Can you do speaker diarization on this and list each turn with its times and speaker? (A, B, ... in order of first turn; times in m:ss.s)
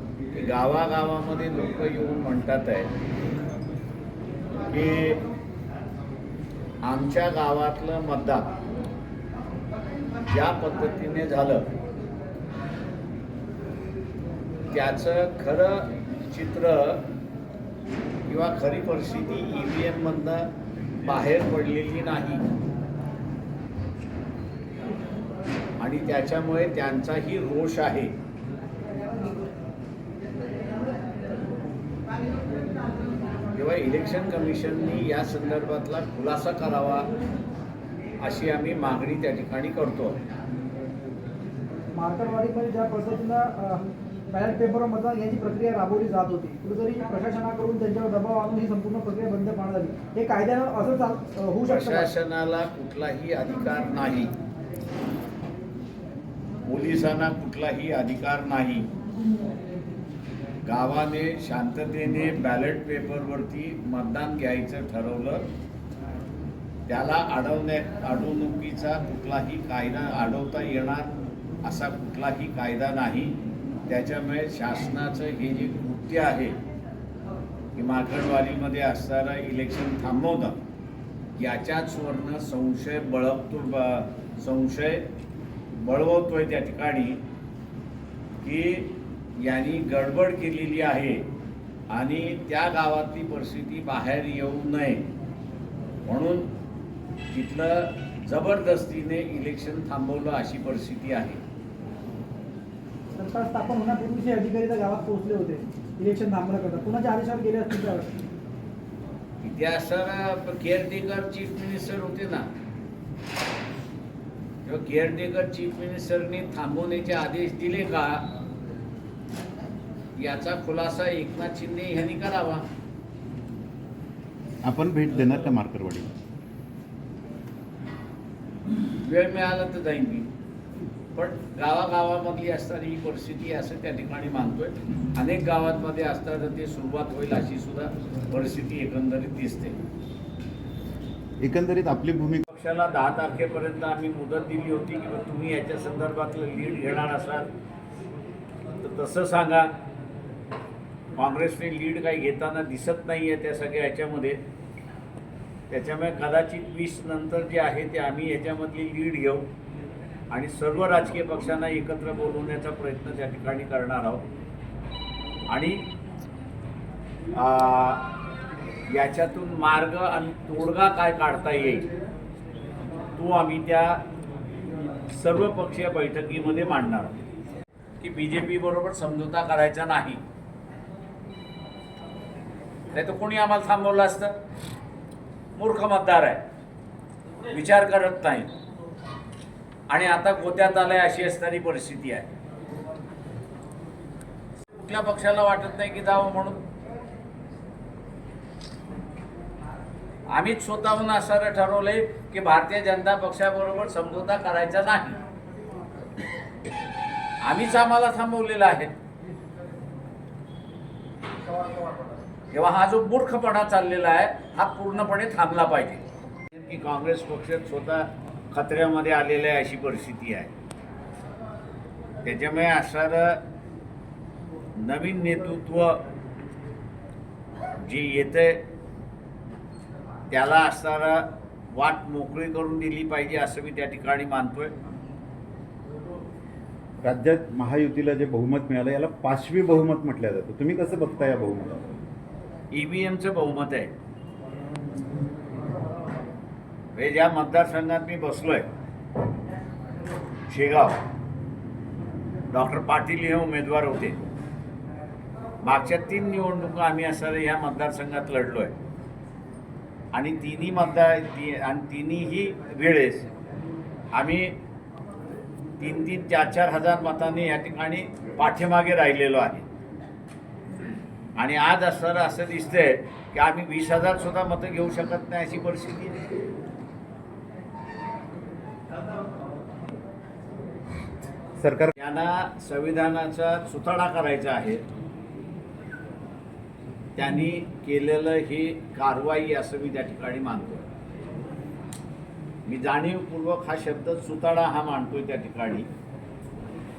0:00.3-0:02.9 A
0:04.7-0:05.2 A
0:06.8-0:08.5 A
0:10.3-0:11.7 A
0:14.7-0:17.0 A
0:18.3-0:20.5 A
0:21.0-0:22.4 A
0:25.8-0:28.1 A
0:33.5-0:37.1 A
0:38.2-0:40.2 A
0:41.9-0:52.1 B
0:51.6-0:54.3 A
0:56.6-0:58.9 A
1:00.6-1:05.5 A
1:06.9-1:11.1 A
1:11.6-1:16.6 A
1:17.8-1:20.6 A
1:21.4-1:25.0 A
1:25.8-1:27.2 A
1:28.4-1:31.2 A
1:31.9-1:35.0 A
1:36.0-1:36.5 A
1:37.3-1:41.4 A
1:43.2-1:48.2 B
1:49.4-1:52.5 A
1:54.6-1:58.3 A
2:00.2-2:02.6 A
2:04.6-2:06.1 C
2:09.0-2:10.3 A
2:11.1-2:19.8 A
2:21.4-2:22.4 C
2:22.5-2:27.5 A
2:28.8-2:29.7 A
2:31.2-2:34.4 A
2:35.7-2:39.4 A
2:40.3-2:44.2 A
2:45.5-2:45.8 A
2:47.4-2:48.1 A
2:48.9-2:51.9 A
2:53.2-2:54.0 A
2:55.1-2:57.2 A
2:58.0-3:00.2 A
3:02.9-3:04.3 A
3:05.6-3:06.4 A
3:07.5-3:08.5 A
3:09.9-3:12.3 A
3:14.7-3:16.6 A
3:20.3-3:25.2 A
3:27.4-3:28.9 A
3:32.5-3:40.5 A
3:42.2-3:43.4 A
3:44.8-3:46.0 A
3:47.8-3:48.6 A
3:50.3-3:54.7 A
3:57.0-4:01.8 C
4:02.7-4:03.9 A
4:06.9-4:08.6 A
4:10.5-4:11.0 A
4:12.5-4:14.2 A
4:15.6-4:18.7 A
4:20.1-4:23.3 A
4:24.1-4:24.5 A
4:25.8-4:29.6 A
4:31.4-4:36.2 A
4:41.6-4:41.9 C
4:42.0-4:44.8 A
4:47.2-4:50.8 A
4:52.7-4:55.9 A